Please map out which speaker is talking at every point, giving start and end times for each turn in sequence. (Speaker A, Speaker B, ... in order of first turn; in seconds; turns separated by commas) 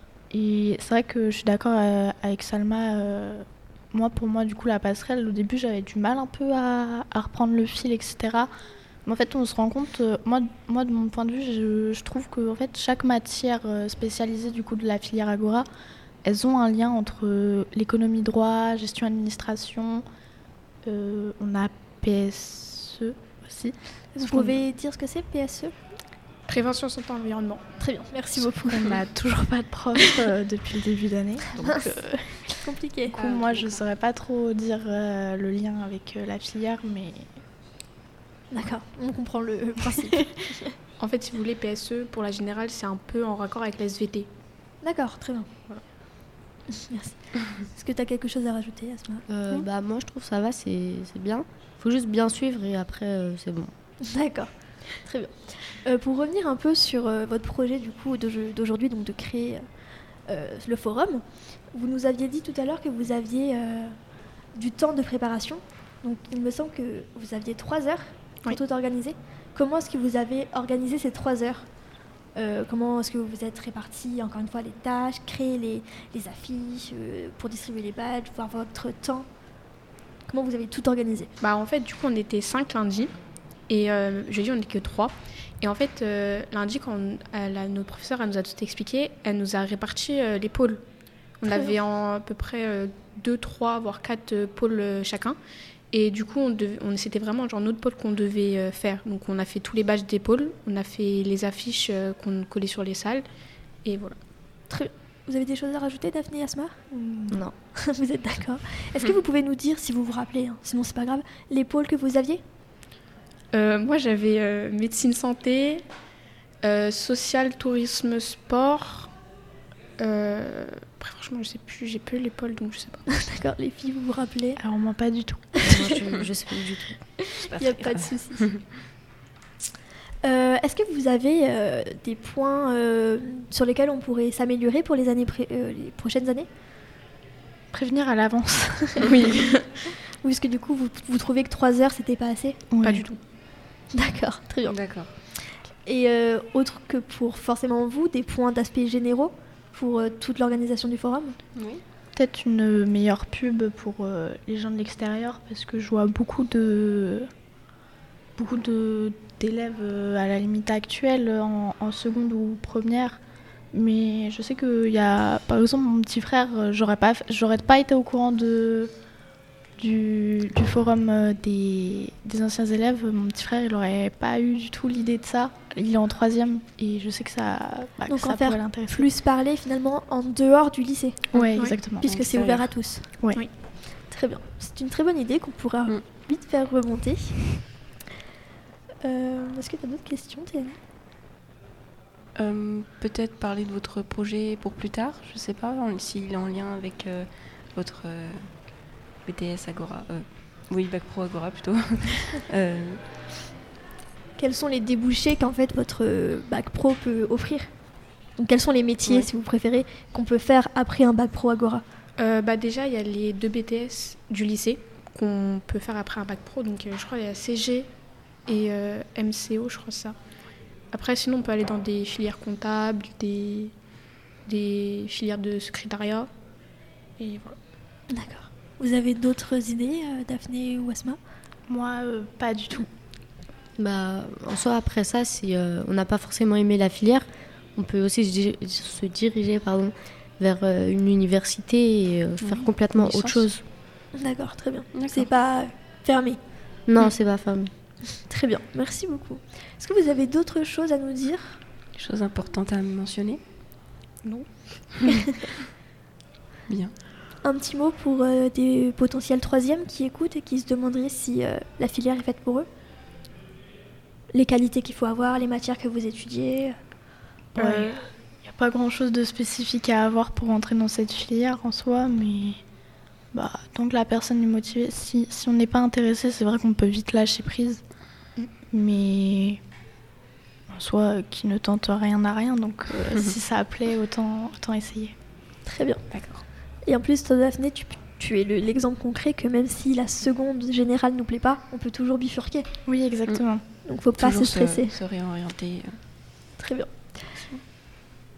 Speaker A: 0.3-8.5, Speaker A: 9.1-15.7, Speaker A: 16.2-20.1, Speaker A: 20.9-24.6, Speaker B: 24.2-25.7, Speaker C: 26.5-27.6, Speaker B: 27.8-29.0, Speaker A: 28.4-37.3, Speaker B: 31.6-33.1, Speaker C: 33.1-33.8, Speaker B: 38.5-40.7, Speaker C: 41.0-44.3, Speaker B: 44.8-45.5, Speaker B: 46.7-49.2, Speaker D: 49.3-53.7, Speaker B: 54.0-54.5, Speaker B: 55.0-59.6, Speaker B: 60.3-63.9, Speaker B: 64.5-71.7, Speaker B: 72.3-79.3, Speaker B: 80.3-81.3, Speaker C: 81.4-83.1, Speaker C: 83.7-90.8, Speaker C: 91.4-95.4, Speaker C: 95.9-103.2, Speaker C: 103.8-104.2, Speaker B: 104.7-106.8, Speaker A: 106.9-107.4, Speaker B: 107.8-112.4, Speaker C: 113.5-115.8, Speaker C: 116.6-119.1, Speaker C: 120.0-123.0, Speaker B: 123.1-124.6, Speaker A: 124.6-125.5, Speaker D: 125.7-127.0, Speaker B: 127.3-128.4, Speaker E: 127.4-128.6, Speaker B: 130.2-136.5, Speaker A: 137.7-139.2, Speaker C: 139.0-139.6, Speaker B: 140.2-142.6, Speaker A: 142.7-143.1, Speaker C: 142.8-143.2, Speaker B: 143.9-144.8, Speaker E: 144.7-145.1, Speaker B: 145.9-151.4, Speaker E: 151.6-151.8, Speaker A: 152.2-157.3, Speaker A: 158.4-163.2, Speaker A: 163.7-168.9, Speaker A: 169.8-179.1, Speaker B: 178.1-181.2, Speaker A: 181.3-182.4, Speaker B: 182.0-183.1, Speaker E: 182.3-182.7, Speaker B: 184.1-187.5, Speaker B: 189.0-190.8, Speaker E: 192.4-198.4, Speaker E: 199.2-203.0, Speaker B: 204.4-207.7, Speaker B: 208.4-211.8, Speaker C: 212.2-217.9, Speaker C: 218.5-220.2, Speaker C: 220.9-223.7, Speaker C: 224.5-226.3, Speaker C: 227.2-227.6, Speaker B: 228.1-231.2, Speaker A: 231.7-232.9, Speaker D: 233.8-243.6, Speaker E: 242.5-243.5, Speaker B: 244.2-246.4, Speaker E: 244.9-245.3, Speaker D: 246.9-247.7, Speaker B: 248.2-251.6, Speaker E: 252.0-253.4, Speaker E: 256.7-256.9, Speaker B: 257.4-262.7, Speaker B: 264.3-266.8, Speaker C: 267.6-268.0, Speaker A: 267.6-272.6, Speaker A: 273.3-277.8, Speaker A: 278.7-279.6, Speaker A: 280.7-285.1, Speaker B: 285.7-286.0, Speaker E: 286.1-286.4, Speaker B: 286.9-292.7, Speaker A: 292.9-293.6, Speaker B: 293.9-295.0, Speaker E: 294.1-295.9, Speaker B: 296.6-296.9